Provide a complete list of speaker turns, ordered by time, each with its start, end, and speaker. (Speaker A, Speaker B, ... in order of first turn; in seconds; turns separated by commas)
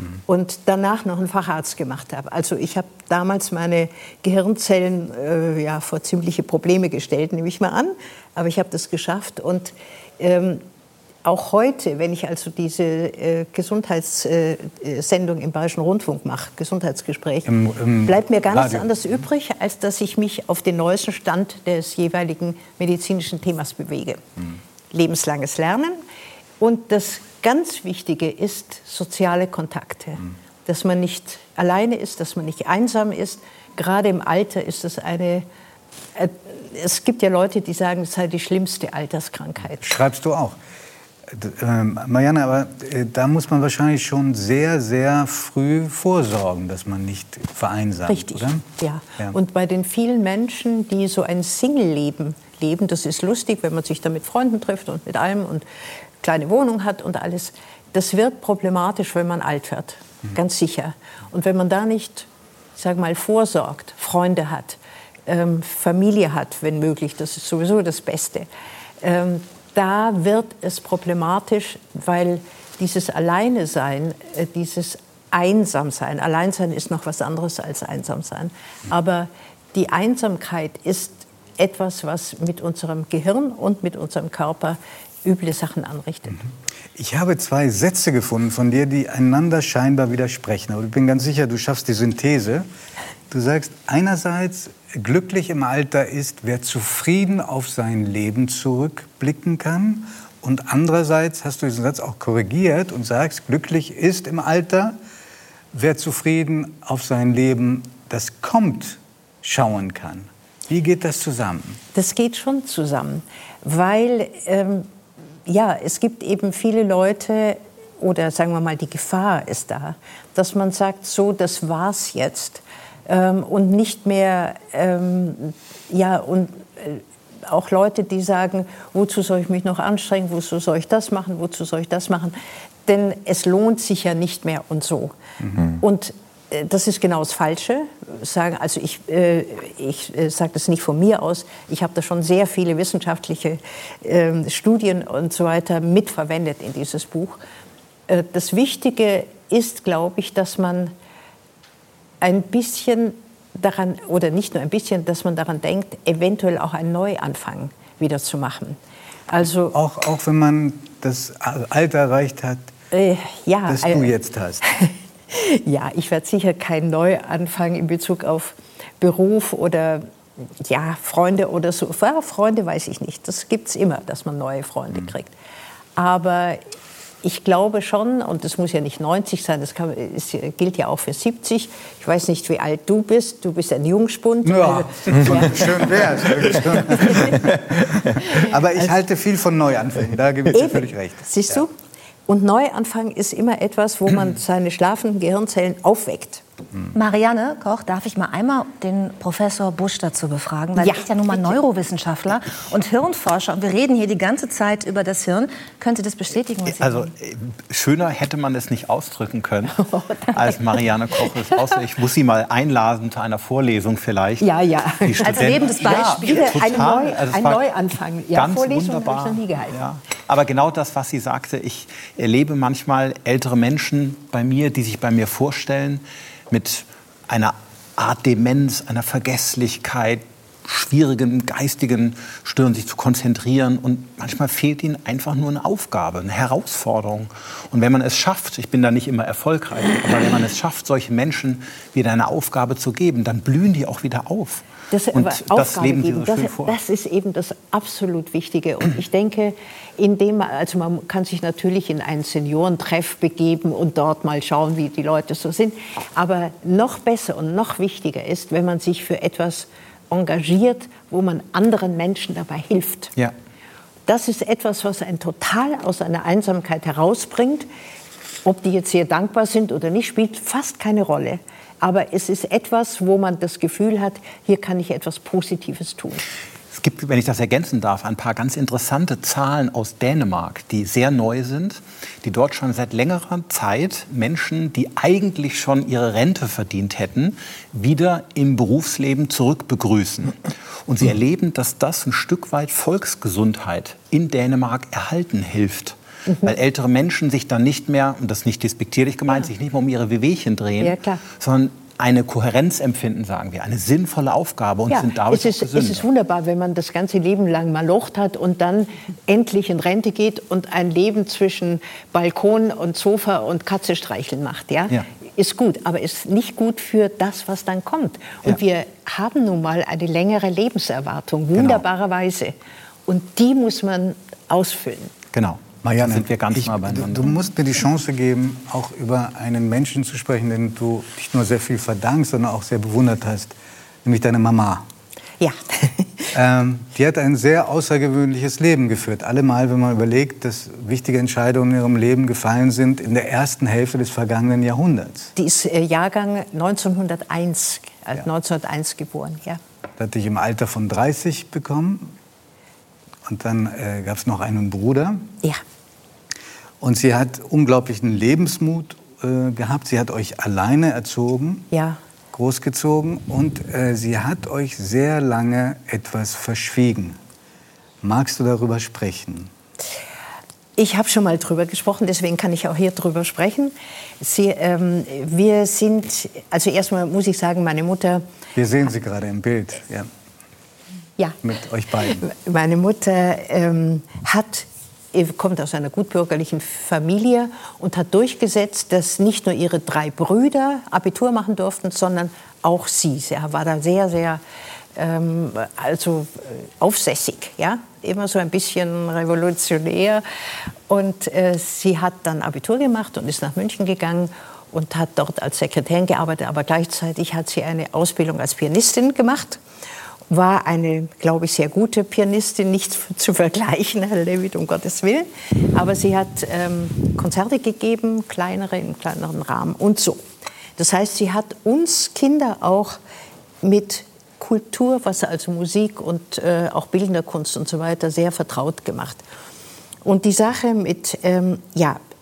Speaker A: 0.3-10.6, Speaker A: 11.2-17.5, Speaker B: 17.5-18.9, Speaker A: 18.1-24.2, Speaker A: 24.9-26.0, Speaker A: 26.6-35.5, Speaker A: 36.1-40.0, Speaker B: 39.8-40.6, Speaker B: 41.3-48.6, Speaker A: 48.1-55.6, Speaker A: 56.2-68.5, Speaker A: 69.0-86.5, Speaker B: 87.0-92.7, Speaker B: 93.3-105.0, Speaker B: 105.7-111.8, Speaker A: 111.9-114.9, Speaker A: 115.5-147.4, Speaker A: 148.1-150.9, Speaker A: 152.2-158.8, Speaker A: 159.3-159.8, Speaker B: 159.7-162.7, Speaker A: 162.9-170.1, Speaker B: 163.7-164.6, Speaker A: 170.6-175.3, Speaker A: 176.0-176.6, Speaker A: 177.2-187.6, Speaker B: 184.4-191.4, Speaker A: 188.1-188.9, Speaker A: 190.5-191.7, Speaker A: 192.3-196.4, Speaker C: 196.9-207.1, Speaker A: 200.8-201.6, Speaker D: 206.8-209.8, Speaker A: 209.7-210.6, Speaker D: 210.3-214.5, Speaker A: 214.4-219.8, Speaker D: 215.0-217.6, Speaker C: 215.2-216.9, Speaker D: 218.3-244.6, Speaker A: 244.9-263.1, Speaker D: 245.1-246.8, Speaker A: 264.1-267.7, Speaker A: 268.4-276.2, Speaker D: 276.7-306.1, Speaker A: 300.8-301.2, Speaker A: 304.9-322.5, Speaker D: 321.6-321.8, Speaker A: 323.1-325.1, Speaker D: 325.3-327.3, Speaker B: 325.8-334.9, Speaker A: 335.4-336.3, Speaker B: 336.3-345.3, Speaker A: 345.4-349.6, Speaker B: 350.0-352.2, Speaker B: 353.2-355.3, Speaker B: 356.8-361.7, Speaker A: 361.7-362.0, Speaker B: 362.3-367.2, Speaker B: 368.0-369.5, Speaker A: 370.8-378.2, Speaker B: 378.6-380.1, Speaker B: 381.4-382.2, Speaker A: 382.0-394.4, Speaker A: 395.0-400.2, Speaker A: 400.9-409.6, Speaker A: 410.3-420.2, Speaker A: 420.8-423.0, Speaker A: 423.6-429.2, Speaker A: 430.0-432.0